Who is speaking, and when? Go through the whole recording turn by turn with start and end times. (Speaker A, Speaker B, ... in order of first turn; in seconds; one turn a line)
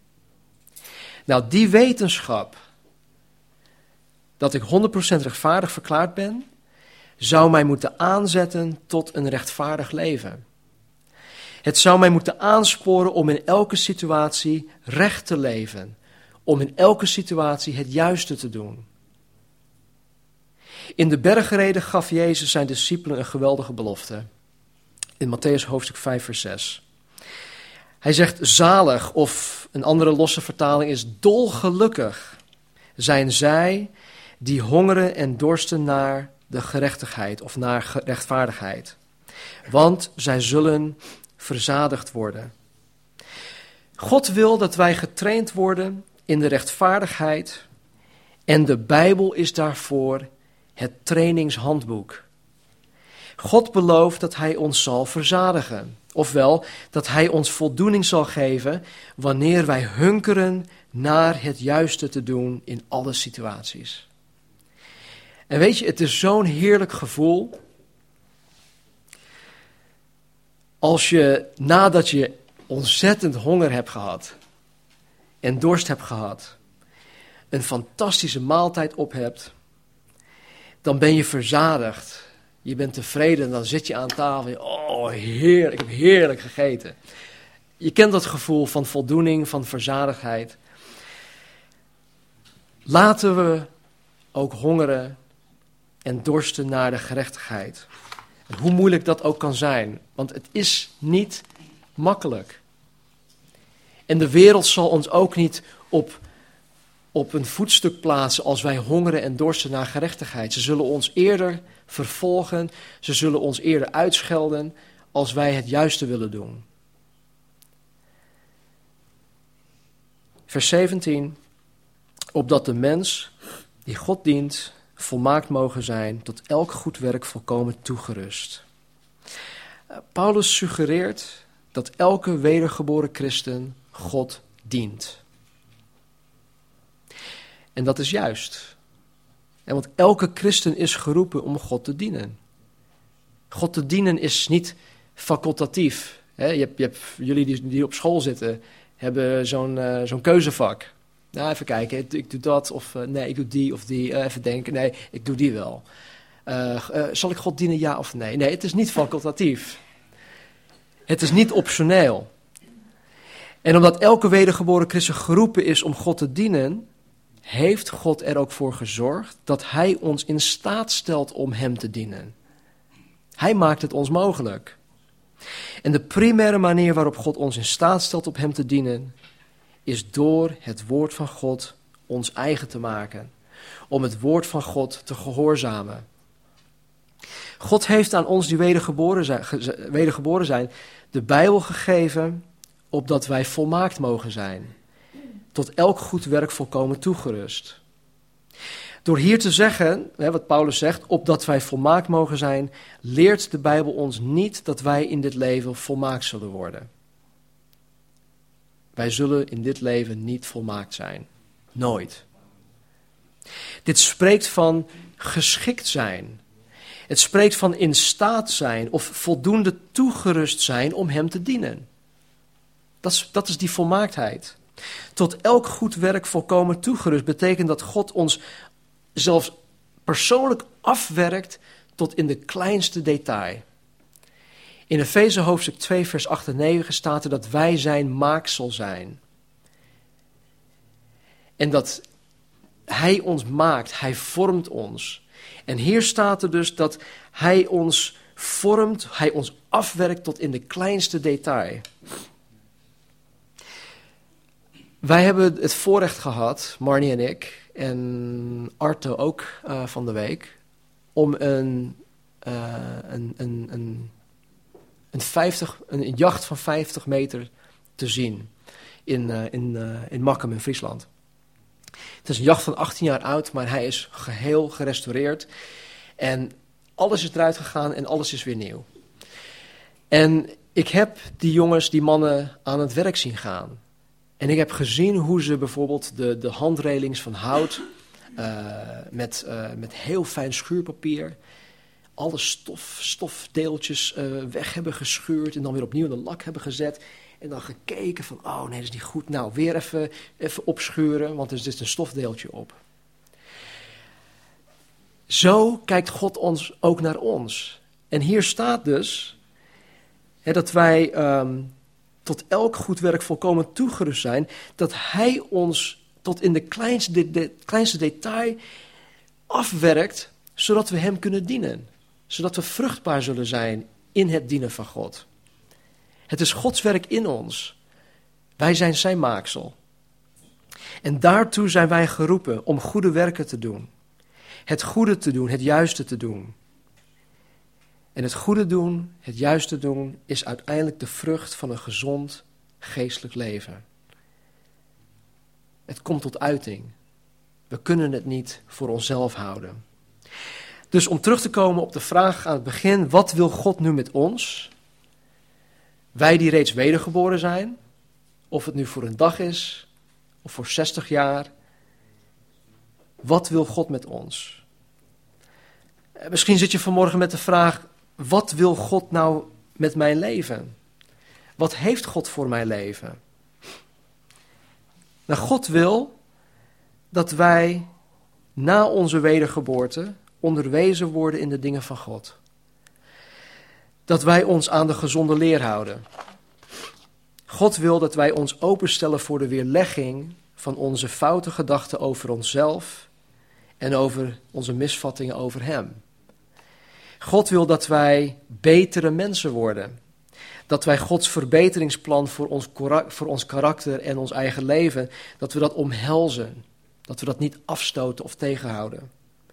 Speaker A: 1.3-2.6
Speaker A: 4.4-6.5
Speaker A: 7.2-10.4
Speaker A: 11.6-18.9
Speaker A: 21.0-24.3
Speaker A: 25.2-26.8
Speaker A: 28.0-32.4
Speaker A: 33.0-39.0
Speaker A: 39.7-42.5
Speaker A: 44.0-47.6
Speaker A: 48.5-52.3
Speaker A: 53.4-64.0
Speaker A: 65.5-67.5
Speaker A: 70.8-74.3
Speaker A: 75.4-76.5
Speaker A: 77.5-79.5
Speaker A: 80.8-87.0
Speaker A: 87.8-90.6
Speaker A: 92.8-93.7
Speaker A: 94.3-95.2
Speaker A: 96.0-97.9
Speaker A: 98.5-101.4
Speaker A: 102.0-102.6
Speaker A: 104.1-106.2
Speaker A: 107.1-116.6
Speaker A: 120.5-121.4
Speaker A: 122.3-123.3
Speaker A: 123.8-128.6
Speaker A: 130.1-135.2
Speaker A: 137.7-138.8
Speaker A: 139.7-142.4
Speaker A: 143.5-155.8
Speaker A: 156.4-159.8
Speaker A: 161.1-162.3
Speaker A: 163.6-166.8
Speaker A: 167.4-172.3
Speaker A: 173.4-174.8
Speaker A: 175.8-179.1
Speaker A: 179.8-183.3
Speaker A: 183.9-186.0
Speaker A: 187.6-194.7
Speaker A: 195.5-197.8
Speaker A: 199.0-206.9
Speaker A: 208.9-212.2
Speaker A: 213.8-216.4
Speaker A: 217.1-221.8
Speaker A: 223.0-224.6
Speaker A: 225.1-228.4
Speaker A: 229.1-233.6
Speaker A: 234.9-239.2
Speaker A: 241.6-242.0
Speaker A: 242.9-251.8
Speaker A: 255.0-260.6
Speaker A: 261.1-264.1
Speaker A: 265.1-268.5
Speaker A: 269.1-271.1
Speaker A: 272.2-275.5
Speaker A: 276.2-278.9
Speaker A: 280.1-283.8
Speaker A: 284.4-287.9
Speaker A: 288.4-291.4
Speaker A: 292.2-302.8
Speaker A: 305.3-309.4
Speaker A: 310.4-311.7
Speaker A: 312.2-318.6
Speaker A: 319.5-325.2
Speaker A: 326.3-327.8
Speaker A: 328.6-329.8
Speaker A: 331.0-333.9
Speaker A: 334.7-336.5
Speaker A: 338.1-343.8
Speaker A: 345.9-346.9
Speaker A: 347.7-349.8
Speaker A: 350.9-354.7
Speaker A: 356.1-357.8
Speaker A: 358.5-359.9
Speaker A: 360.4-361.5
Speaker A: 363.2-364.6
Speaker A: 366.2-370.7
Speaker A: 371.6-373.2
Speaker A: 375.3-376.1
Speaker A: 377.1-377.9
Speaker A: 378.6-382.4
Speaker A: 384.1-386.0
Speaker A: 387.5-393.1
Speaker A: 393.8-396.0
Speaker A: 397.2-399.9
Speaker A: 400.7-409.1